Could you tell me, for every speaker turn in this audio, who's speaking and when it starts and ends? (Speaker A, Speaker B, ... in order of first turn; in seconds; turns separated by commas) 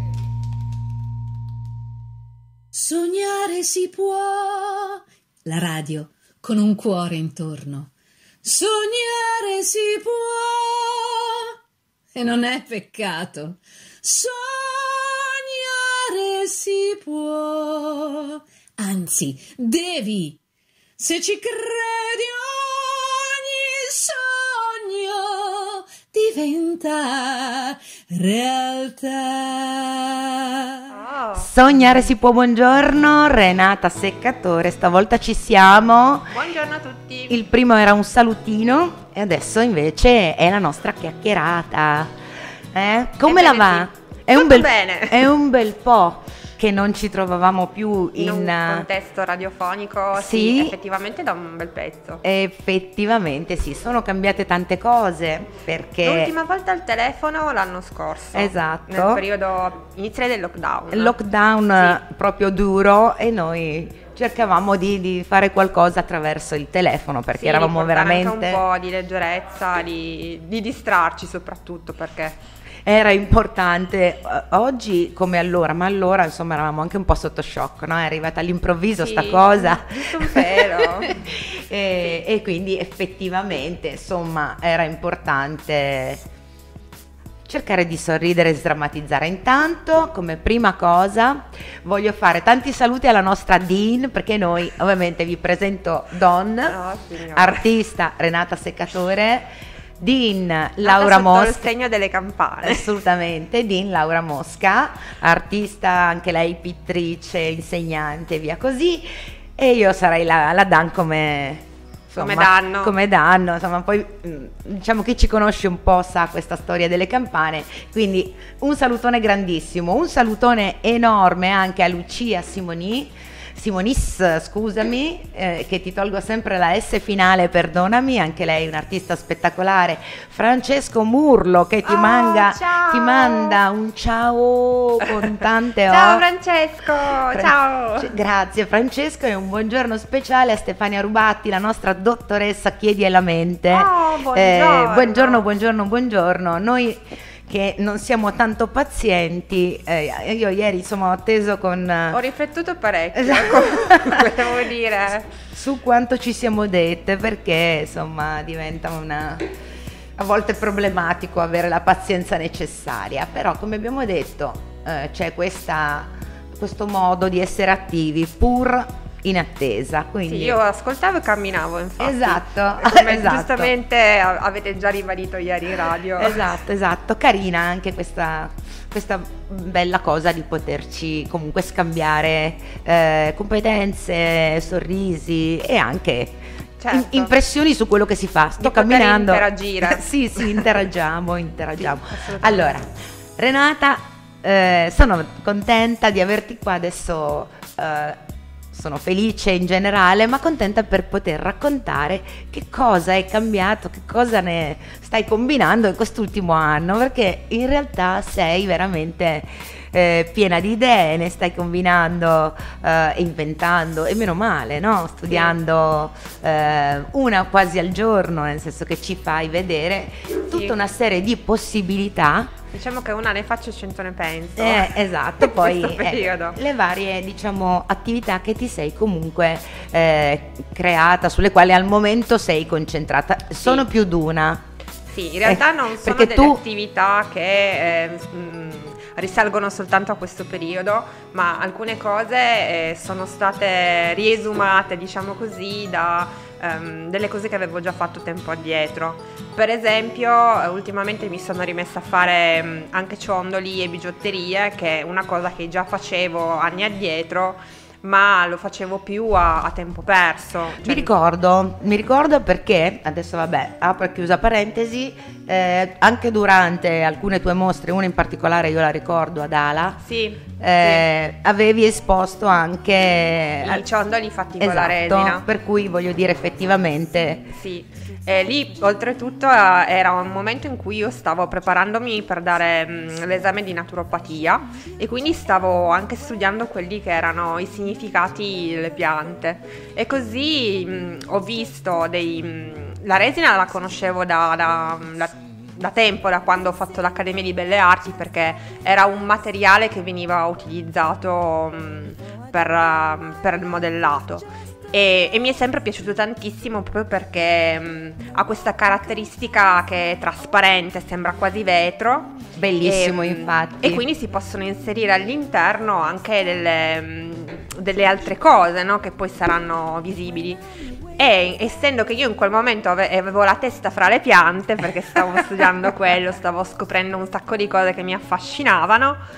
Speaker A: 2.7-7.9, Speaker A: 8.4-11.5, Speaker A: 12.1-20.4, Speaker A: 21.0-30.9, Speaker B: 30.9-32.1, Speaker C: 31.4-36.3, Speaker B: 36.3-37.4, Speaker C: 37.3-42.1, Speaker C: 42.7-48.9, Speaker B: 43.2-45.3, Speaker B: 48.1-52.2, Speaker C: 50.1-50.7, Speaker C: 52.2-56.3, Speaker B: 56.0-61.1, Speaker C: 58.3-59.2, Speaker C: 60.9-68.6, Speaker B: 67.3-72.4, Speaker C: 72.8-86.2, Speaker B: 79.0-81.2, Speaker C: 87.4-96.8, Speaker B: 96.7-97.6, Speaker C: 97.3-99.5, Speaker C: 100.0-101.7, Speaker B: 100.8-102.9, Speaker C: 102.6-136.2, Speaker B: 112.1-112.9, Speaker B: 131.8-133.6, Speaker B: 135.9-138.1, Speaker C: 137.3-152.2, Speaker B: 143.7-145.4, Speaker B: 152.1-155.3, Speaker C: 153.2-154.2, Speaker C: 155.5-159.5, Speaker C: 160.2-170.6, Speaker B: 170.2-176.5, Speaker C: 172.0-173.7, Speaker C: 176.2-198.2, Speaker B: 186.8-187.3, Speaker B: 188.6-190.8, Speaker B: 191.8-192.8, Speaker C: 198.7-222.5, Speaker B: 215.3-215.5, Speaker B: 220.5-220.8, Speaker B: 222.7-226.6, Speaker C: 224.6-234.6, Speaker B: 235.1-261.1, Speaker C: 235.4-236.6, Speaker C: 260.8-270.0, Speaker B: 270.0-271.1, Speaker C: 270.6-273.8, Speaker B: 273.6-275.4, Speaker C: 274.6-277.5, Speaker B: 277.5-320.6, Speaker C: 312.6-314.0, Speaker B: 321.1-329.2